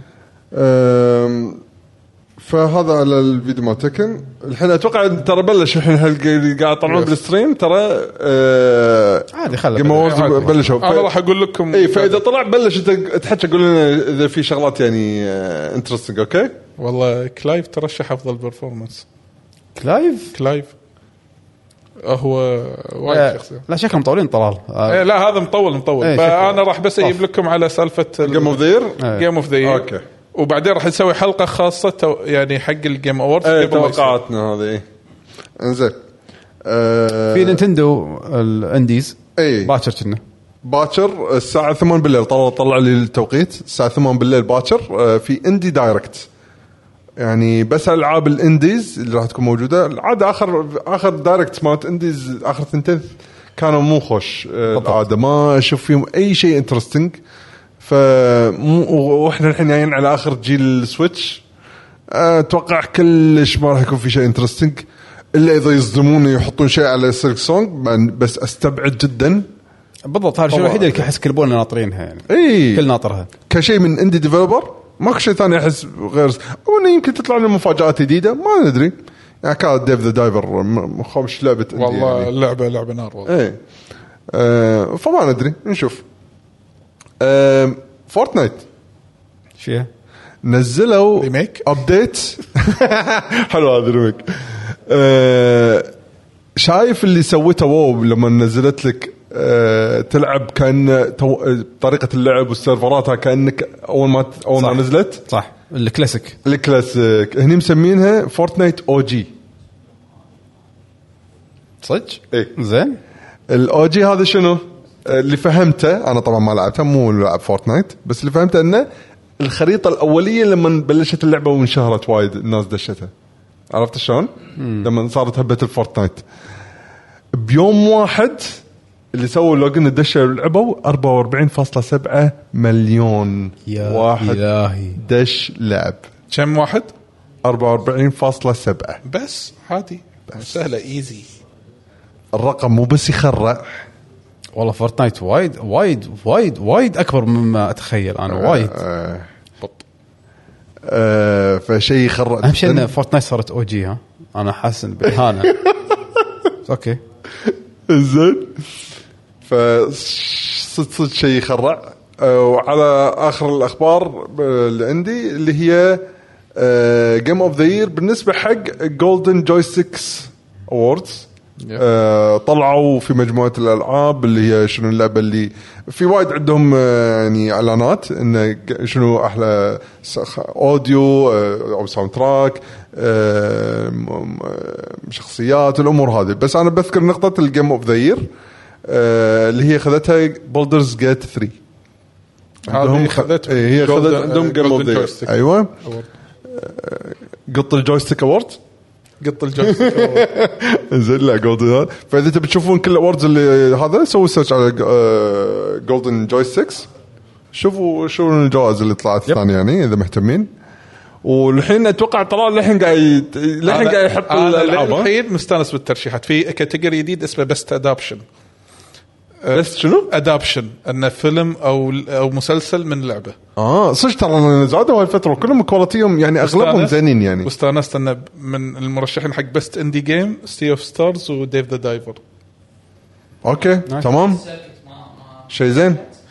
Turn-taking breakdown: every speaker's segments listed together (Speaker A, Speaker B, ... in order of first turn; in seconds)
Speaker A: 0.5-1.6, 2.4-11.1, 11.7-16.6, 28.2-29.0, 29.6-30.0, 33.4-34.8, 35.6-36.0, 36.6-37.6, 39.4-39.7, 40.6-46.3, 47.2-57.2, 57.8-61.4, 62.1-69.5, 70.5-71.1, 72.3-72.8, 73.5-82.3, 83.2-83.6, 84.3-86.0, 87.2-88.6, 90.4-95.9, 96.6-105.2, 106.4-109.3, 113.5-118.9, 119.4-123.1, 123.7-126.2, 127.3-128.6, 129.1-134.4, 134.9-136.1, 137.4-139.0, 142.3-143.8, 148.3-149.3, 150.8-152.9, 155.5-155.8, 157.4-158.6, 159.4-188.3, 188.8-191.6, 192.7-195.7, 196.5-198.6, 199.6-206.9, 207.5-210.5, 211.2-215.1, 219.5-220.1, 223.6-227.5, 233.4-234.5, 235.5-236.0
Speaker B: 9.3-10.8, 19.8-20.3, 23.1-25.0, 26.0-27.1, 29.0-29.2, 37.3-40.2, 54.7-55.0, 70.1-73.3, 89.6-89.9, 104.5-106.4, 111.8-113.0, 124.6-124.9, 133.7-135.0, 144.6-148.8, 152.4-155.6, 156.7-157.0
Speaker C: 10.1-12.2, 16.8-19.0, 20.3-20.7, 22.0-23.6, 24.9-34.2, 81.7-83.3, 91.2-91.7, 136.3-136.9, 139.0-141.3, 192.7-196.1, 199.2-200.3, 213.7-218.2, 219.4-223.3, 226.4-232.2